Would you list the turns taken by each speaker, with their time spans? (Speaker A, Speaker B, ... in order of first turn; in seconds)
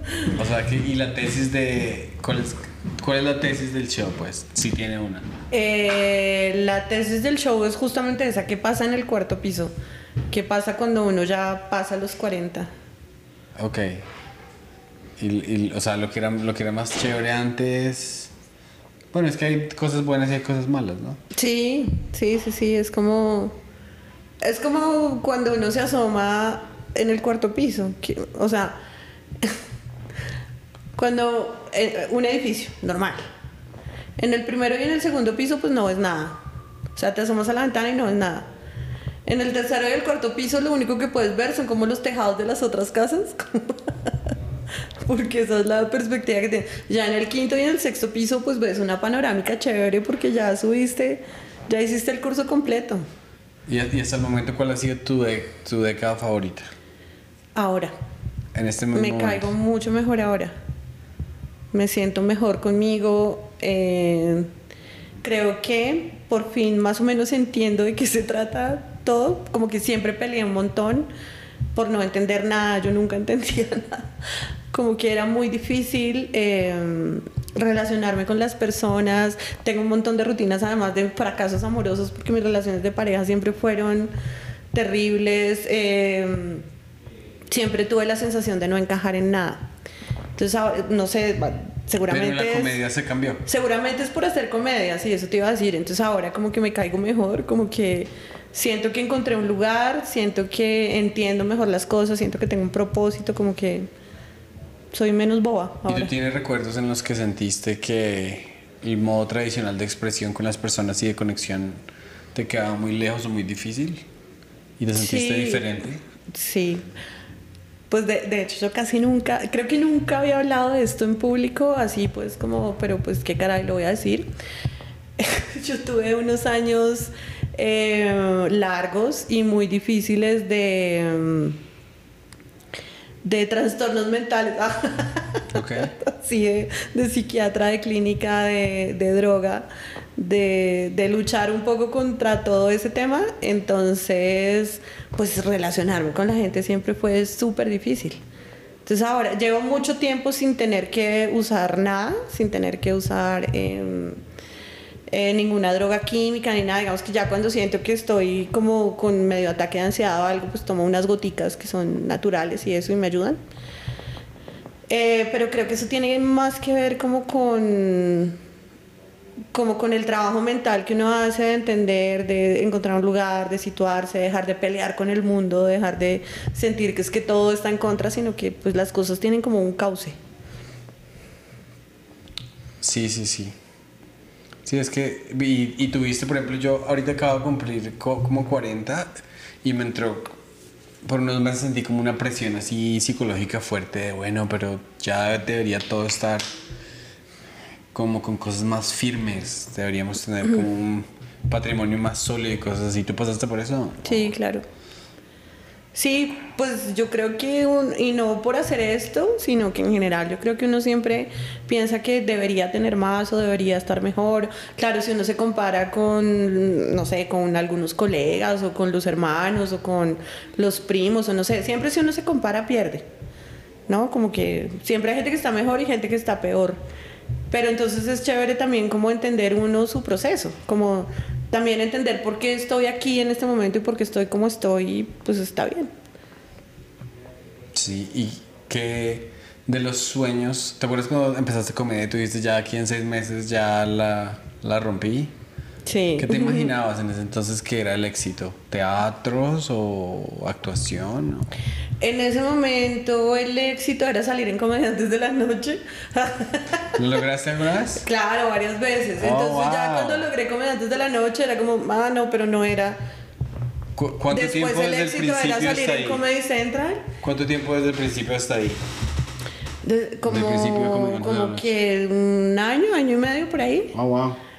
Speaker A: 0.3-5.2, 13.6-14.0, 15.2-18.3, 19.1-21.2, 53.7-56.7, 58.5-59.5, 92.1-93.4, 105.9-111.8, 112.3-114.0, 114.8-116.0, 135.5-135.9, 182.8-183.5, 184.6-189.1, 189.6-190.3, 191.0-196.4, 197.9-204.3, 237.7-245.3, 246.2-251.5, 256.9-258.0, 259.2-260.3, 263.9-266.2, 267.2-268.8, 270.2-271.6, 273.9-274.4
Speaker B: 5.5-9.7, 10.3-12.7, 21.3-23.5, 24.4-28.8, 30.9-33.2, 34.2-36.4, 36.9-38.5, 39.2-44.1, 45.0-53.0, 57.5-57.9, 58.9-60.5, 61.7-64.5, 65.2-71.1, 71.7-74.1, 74.7-84.1, 84.7-86.7, 87.5-89.7, 90.4-92.8, 93.5-103.9, 104.9-106.1, 114.9-115.7, 116.3-116.8, 117.9-124.3, 125.2-131.6, 133.2-148.2, 148.8-154.2, 155.1-163.4, 164.9-168.4, 169.5-180.2, 204.0-204.6, 205.9-223.1, 223.9-226.8, 227.5-235.9, 245.8-246.7, 252.0-257.0, 258.0-263.0, 264.3-267.1, 269.8-273.9